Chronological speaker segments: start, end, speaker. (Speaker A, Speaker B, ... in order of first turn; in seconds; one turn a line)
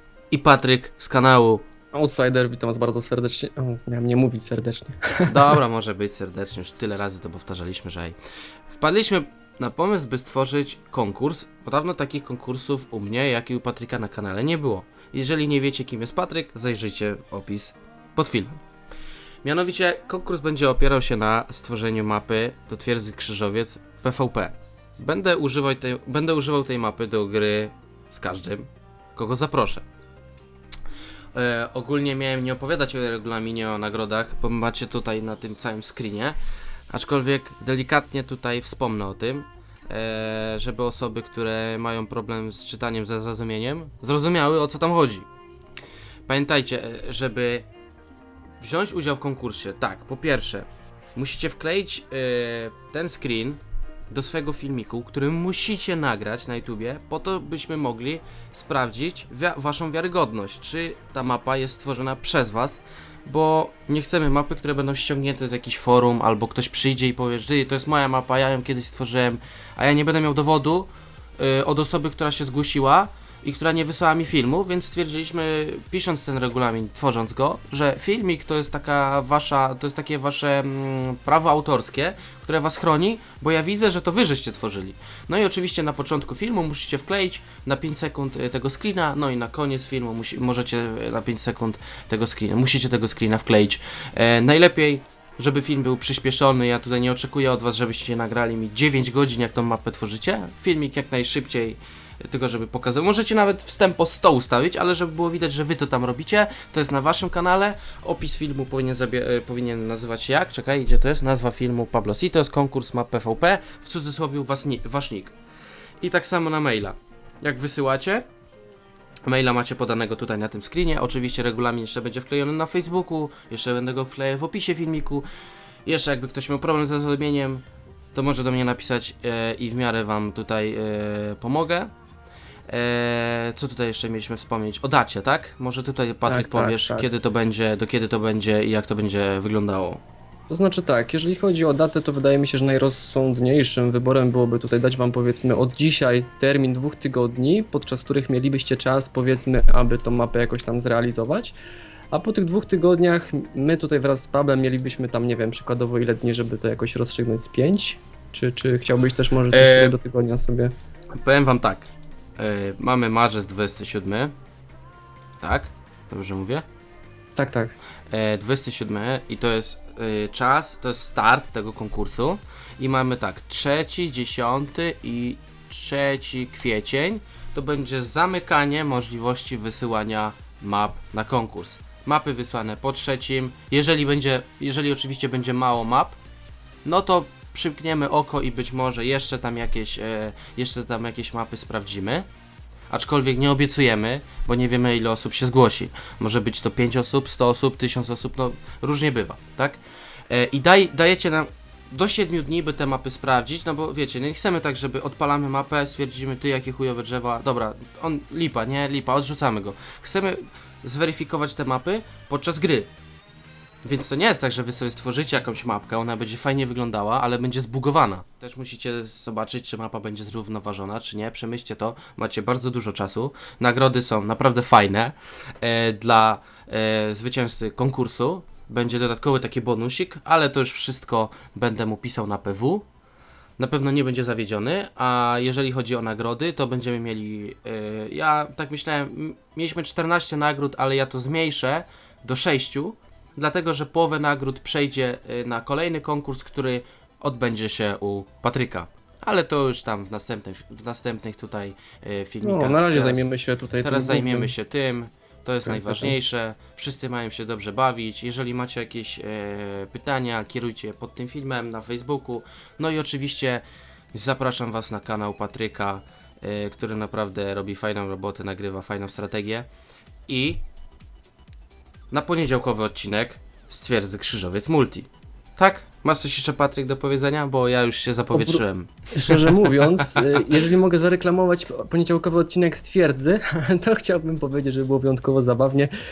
Speaker A: 0.3-1.6
Speaker B: 1.9-5.6
Speaker A: 5.3-8.2
Speaker A: 8.7-18.6
Speaker A: 19.4-29.8
Speaker A: 31.3-36.4
Speaker A: 36.9-45.3
Speaker A: 46.3-47.6
Speaker A: 48.6-115.3
Speaker A: 116.0-118.2
Speaker A: 119.2-125.2
Speaker A: 125.8-131.9
Speaker A: 132.7-140.0
Speaker B: 136.3-137.1
Speaker B: 140.5-151.6
Speaker B: 152.1-160.7
Speaker A: 159.5-159.9
Speaker A: 161.2-164.3
Speaker A: 165.4-166.6
Speaker B: 167.3-167.7
Speaker A: 168.1-186.2
Speaker A: 186.8-192.2
Speaker A: 192.9-212.9
Speaker A: 213.8-232.8
Speaker A: 233.6-253.2
Speaker B: 252.4-254.5
Speaker A: 253.8-269.7
Speaker B: 255.6-256.1
Speaker A: 270.3-270.6
Speaker A: 272.1-280.2
Speaker B: 278.3-285.9